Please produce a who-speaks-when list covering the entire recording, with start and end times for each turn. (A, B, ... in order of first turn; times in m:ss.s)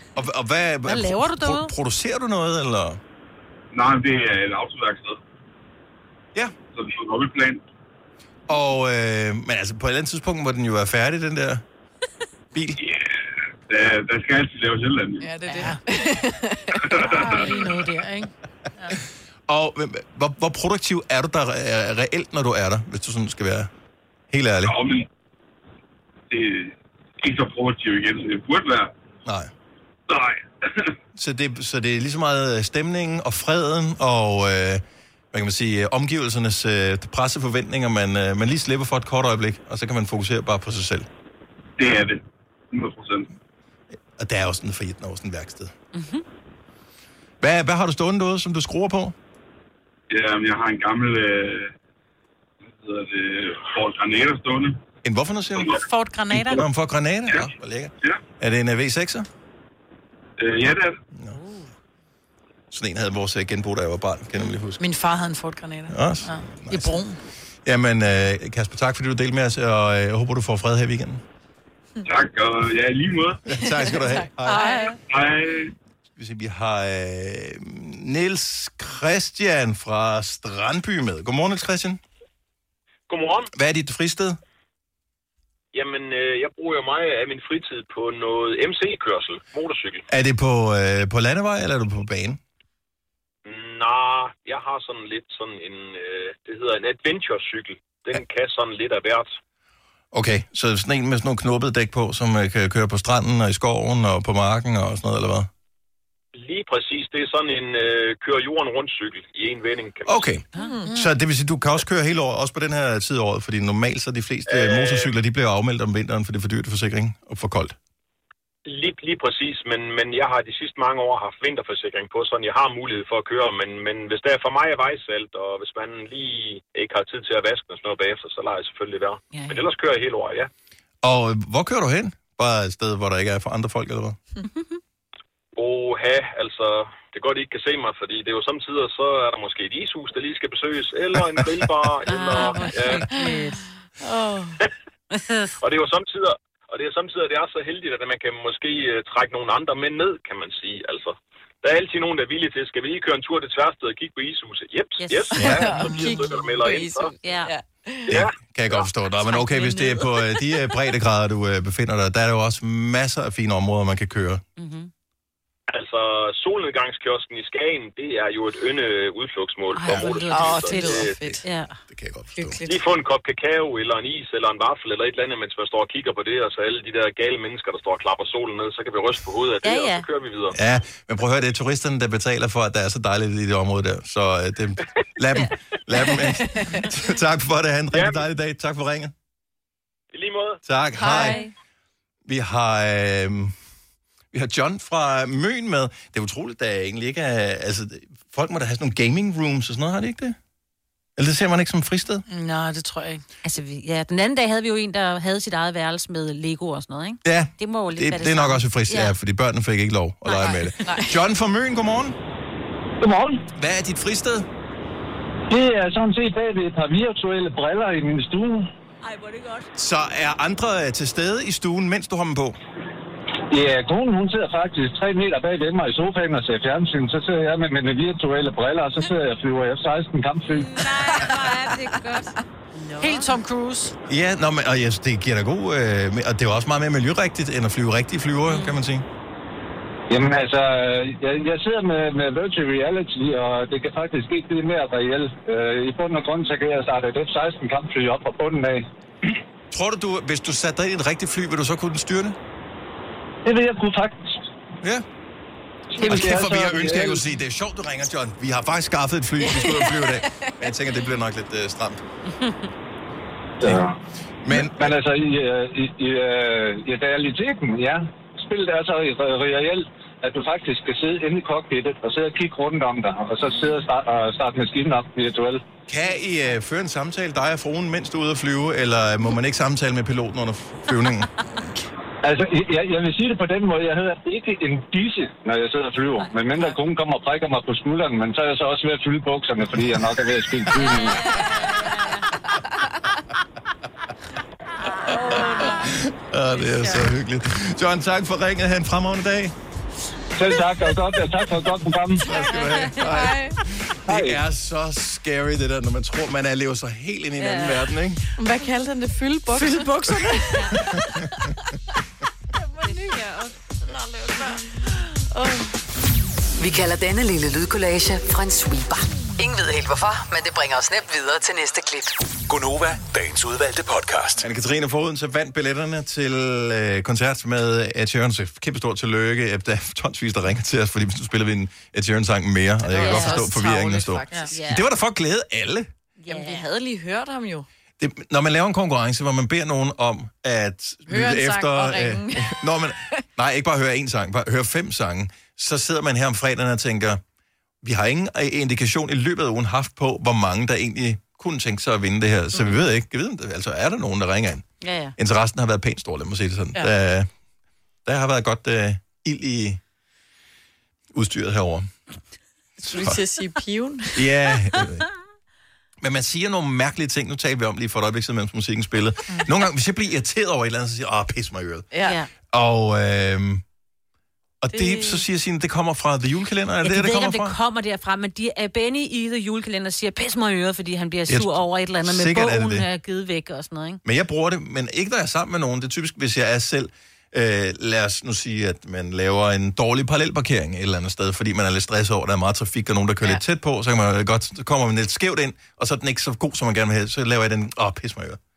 0:00.2-0:03.0 A
0:00.9-0:01.7 B
0:03.7-0:05.2 C
0:06.7-0:07.6 C
0:08.5-0:11.6 A
0:12.5-0:12.8 A
0:12.8-0:15.3 C
0:15.2-0:17.0 D
0:15.5-0:15.8 B
0:16.8-0:17.5 C
0:17.0-0:19.0 B
0:19.5-0:23.7 A
0:24.3-0:24.8 A
0:24.6-0:25.0 C
0:26.3-0:28.9 C
0:29.2-0:29.5 A
0:30.1-0:30.9 C
0:31.1-0:41.1 A
0:41.8-0:43.3 C
0:44.2-0:45.7 A
0:45.9-0:46.2 E
0:47.4-0:49.2 A
0:50.1-0:51.7 C
0:52.7-0:54.8 C
0:55.0-0:59.3 A
0:55.6-0:55.8 C
0:55.8-0:56.6 B
1:00.4-1:01.0 C
1:01.3-1:01.7 E
1:02.7-1:04.8 A
1:04.8-1:07.2 B
1:05.9-1:07.0 A
1:07.6-1:11.2 A
1:12.0-1:13.4 C
1:13.4-1:14.6 A
1:13.7-1:14.9 D
1:14.4-1:15.0 B
1:15.1-1:15.7 C
1:16.2-1:22.0 A
1:23.1-1:23.5 F
1:23.5-1:24.4 A
1:25.7-1:30.0 F
1:30.1-1:32.4 A
1:33.4-1:39.4 F
1:40.1-1:45.5 A
1:46.3-1:50.3 F
1:50.0-1:57.8 A
1:50.5-1:50.8 E
1:50.6-1:50.9 D
1:54.5-1:55.1 F
1:58.6-2:10.5 F
2:09.3-2:09.6 E
2:11.0-2:14.2 A
2:14.5-2:14.8 E
2:15.6-2:23.0 F
2:22.0-2:23.6 E
2:22.3-2:23.5 D
2:24.0-2:24.6 D
2:25.1-2:25.5 E
2:25.6-2:37.1 F
2:35.0-2:36.4 E
2:35.3-2:38.2 D
2:35.4-2:35.7 A
2:37.2-2:37.5 E
2:38.1-2:44.4 A
2:38.1-2:38.3 F
2:39.2-2:40.4 E
2:44.6-2:44.9 E
2:45.7-2:51.1 F
2:49.7-2:51.8 E
2:49.9-2:50.2 A
2:50.2-2:51.4 D
2:51.9-2:52.6 A
2:52.3-2:52.8 D
2:52.6-3:00.6 F
2:59.6-3:00.0 E
3:00.5-3:09.1 A
3:07.9-3:08.2 F
3:10.1-3:10.6 F
3:10.6-3:11.4 A
3:11.0-3:11.5 D
3:11.1-3:11.5 E
3:12.2-3:13.5 A
3:14.3-3:20.4 A
3:21.2-3:22.2 A
3:22.3-3:23.2 B
3:23.4-3:29.1 E
3:27.2-3:32.2 A
3:30.3-3:30.7 E
3:30.8-3:31.2 D
3:33.0-3:33.4 G
3:33.5-3:34.5 A
3:35.5-3:38.7 G
3:39.0-3:39.7 E
3:39.8-3:42.6 A
3:43.5-3:50.7 G
3:50.6-3:53.3 E
3:50.8-3:51.8 D
3:53.0-3:53.9 B
3:54.1-3:59.0 A
3:58.5-3:58.8 E
4:00.1-4:08.9 G
4:09.7-4:12.4 A
4:13.4-4:14.4 G
4:15.9-4:17.2 G
4:16.0-4:22.0 A
4:19.4-4:20.5 D
4:23.6-4:24.0 G
4:24.4-4:25.0 A
4:24.5-4:35.7 G
4:35.9-4:41.3 A
4:42.2-4:51.2 G
4:50.7-4:52.2 E
4:55.0-4:55.8 E
4:55.1-4:59.5 A
4:56.7-4:56.9 E
5:00.4-5:02.2 G
5:02.2-5:08.2 A
5:02.3-5:03.0 E
5:03.0-5:03.6 D
5:04.1-5:04.4 G
5:07.4-5:07.9 E
5:08.4-5:10.6 D
5:09.6-5:10.1 B
5:10.5-5:10.9 E
5:12.8-5:14.6 E
5:15.3-5:15.7 D
5:16.6-5:22.2 H
5:22.4-5:24.4 I
5:24.4-5:35.9 A
5:32.8-5:34.6 D
5:33.0-5:33.5 E
5:34.5-5:34.8 E
5:36.2-5:36.6 E
5:36.3-5:37.6 D
5:38.0-5:47.2 A
5:41.1-5:42.5 D
5:47.8-5:57.3 A
5:54.8-5:55.1 E
5:58.0-5:59.8 A
6:01.1-6:01.9 A
6:02.8-6:04.2 D
6:02.8-6:03.2 A
6:04.1-6:05.1 A
6:06.0-6:11.9 A
6:11.9-6:12.2 D
6:12.0-6:12.3 E
6:12.4-6:13.6 A
6:14.6-6:17.6 A
6:14.7-6:15.2 D
6:16.8-6:24.0 E
6:21.3-6:22.9 A
6:24.0-6:38.4 A